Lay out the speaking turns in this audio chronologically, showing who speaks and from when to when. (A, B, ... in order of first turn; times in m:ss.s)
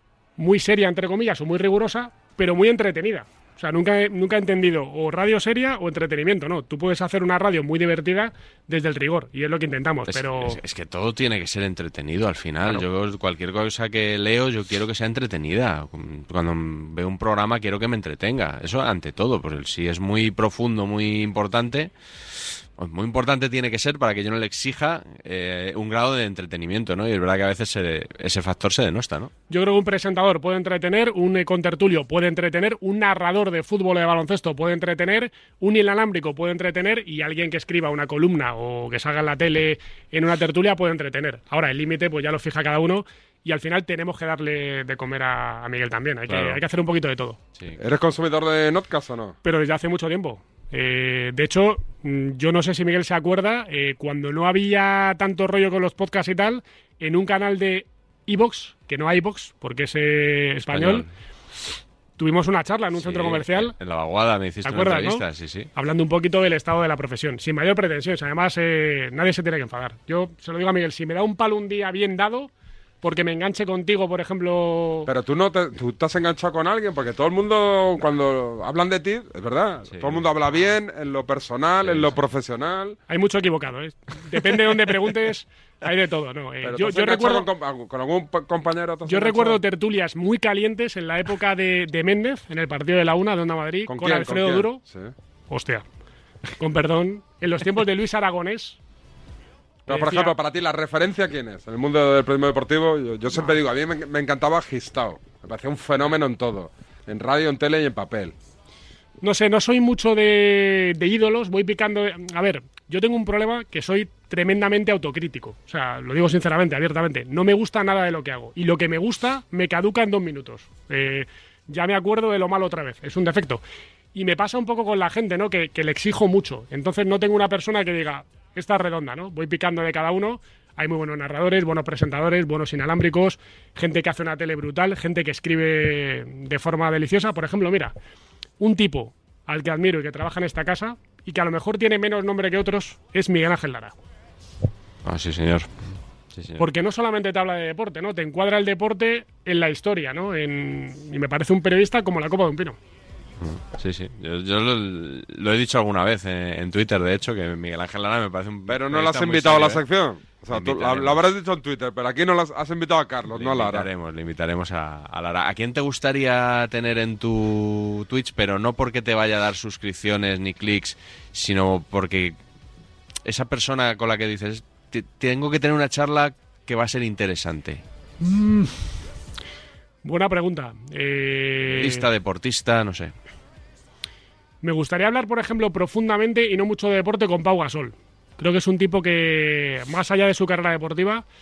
0:00.4-0:10.6 A
0:10.1-0:21.9 B
0:22.8-0:29.3 B
0:29.5-0:47.4 A
0:46.3-0:46.6 B
0:47.8-0:49.4 C
0:49.4-1:01.1 A
1:00.7-1:01.1 B
1:02.2-1:03.8 A
1:03.0-1:05.7 B
1:04.6-1:05.2 A
1:05.8-1:12.5 A
1:13.0-1:15.1 A
1:15.1-1:23.0 C
1:19.9-1:20.7 B
1:21.8-1:22.2 B
1:23.1-1:27.5 A
1:26.6-1:29.6 C
1:29.1-1:34.8 A
1:33.9-1:35.1 C
1:35.5-1:35.8 A
1:36.6-1:38.8 A
1:39.9-1:40.4 A
1:39.9-1:48.3 C
1:49.2-2:03.6 A
2:04.1-2:17.9 A
2:18.6-2:24.0 A
2:25.0-2:26.6 B
2:26.6-2:32.8 A
2:33.4-2:39.8 B
2:38.7-2:43.9 C
2:40.5-2:41.2 B
2:43.3-2:52.4 B
2:53.3-2:57.8 B
3:00.0-3:02.1 A
3:01.7-3:03.1 B
3:04.6-3:11.2 A